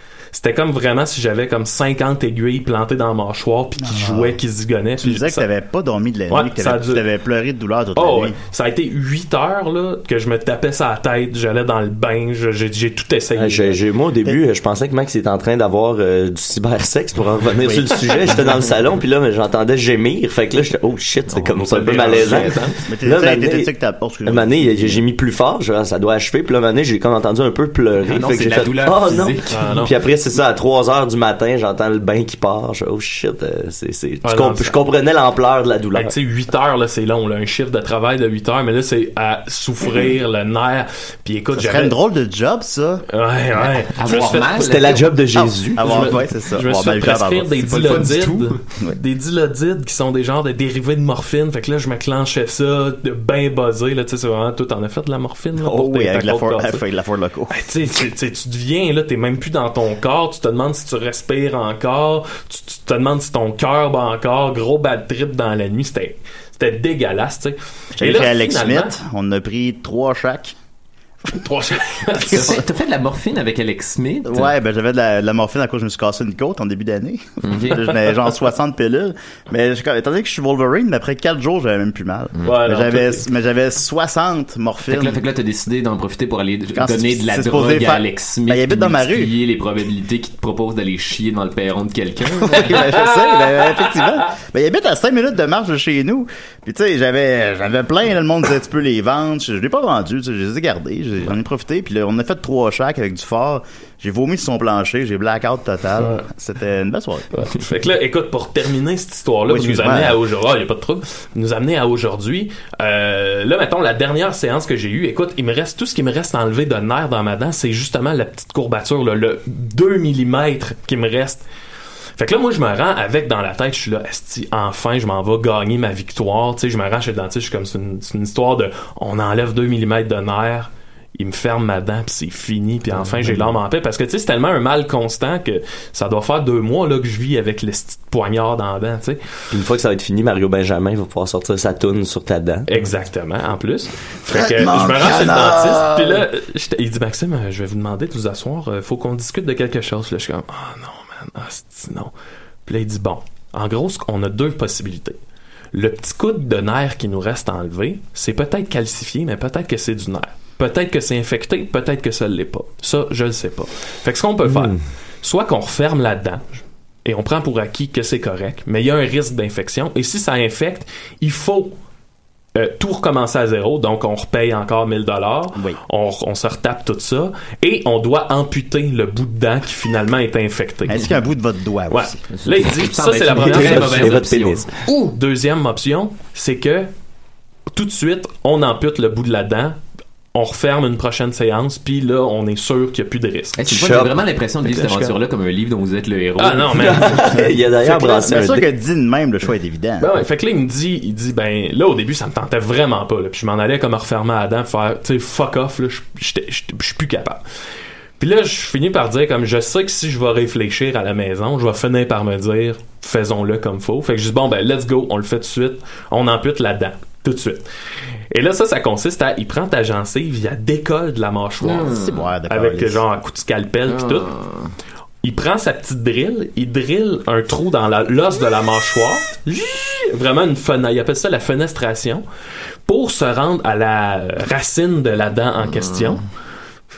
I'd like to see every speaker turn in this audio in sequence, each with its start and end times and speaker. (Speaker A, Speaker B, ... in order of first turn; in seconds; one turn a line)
Speaker A: 0.3-5.5
Speaker B: 3.8-4.4
Speaker B: 5.0-8.3
Speaker A: 6.3-7.0
Speaker A: 8.0-13.8
Speaker C: 13.4-23.7
Speaker B: 17.6-18.5
Speaker D: 21.3-22.7
Speaker A: 21.9-22.7
Speaker B: 22.9-25.0
Speaker C: 24.3-36.1
Speaker D: 28.1-29.6
Speaker A: 29.5-29.9
Speaker A: 34.2-34.8
Speaker A: 35.9-42.0
Speaker B: 41.5-43.0
Speaker A: 43.1-44.6
Speaker D: 43.9-45.0
Speaker C: 44.5-46.1
Speaker B: 45.4-48.1
Speaker A: 45.8-56.8
Speaker D: 47.7-48.6
Speaker B: 55.6-57.7
Speaker A: 57.5-69.0
Speaker B: 68.0-70.5
Speaker A: 71.3-72.6
Speaker D: 72.3-74.5
Speaker B: 74.3-85.2
Speaker D: 77.5-77.8
Speaker A: 82.5-83.2
Speaker D: 84.9-92.8
Speaker B: 86.8-89.3
Speaker B: 92.5-107.3
Speaker A: 92.8-94.0
Speaker A: 107.3-121.4
Speaker B: 109.5-110.2
Speaker A: 122.2-139.2
Speaker C: 133.1-133.5
Speaker C: 139.5-142.7
Speaker A: 142.7-152.1
Speaker B: 144.3-146.2
Speaker A: 152.7-155.2
Speaker A: 155.7-171.7
Speaker C: 164.4-164.8
Speaker A: 172.6-181.1
Speaker B: 180.9-182.1
Speaker A: 181.9-184.2
Speaker D: 182.3-184.7
Speaker C: 183.4-184.7
Speaker A: 184.9-186.9
Speaker A: 187.7-189.8
Speaker A: 190.3-193.6
Speaker D: 193.6-197.2
Speaker C: 193.7-194.2
Speaker A: 196.4-197.4
Speaker C: 196.7-198.7
Speaker B: 197.4-200.1
Speaker A: 200.0-207.4
Speaker A: 208.2-217.7
Speaker A: 218.3-221.9
Speaker D: 221.6-222.3
Speaker B: 221.9-223.0
Speaker A: 222.5-224.3
Speaker D: 223.9-224.7
Speaker A: 225.2-232.2
Speaker A: 232.9-236.2
Speaker D: 235.6-236.2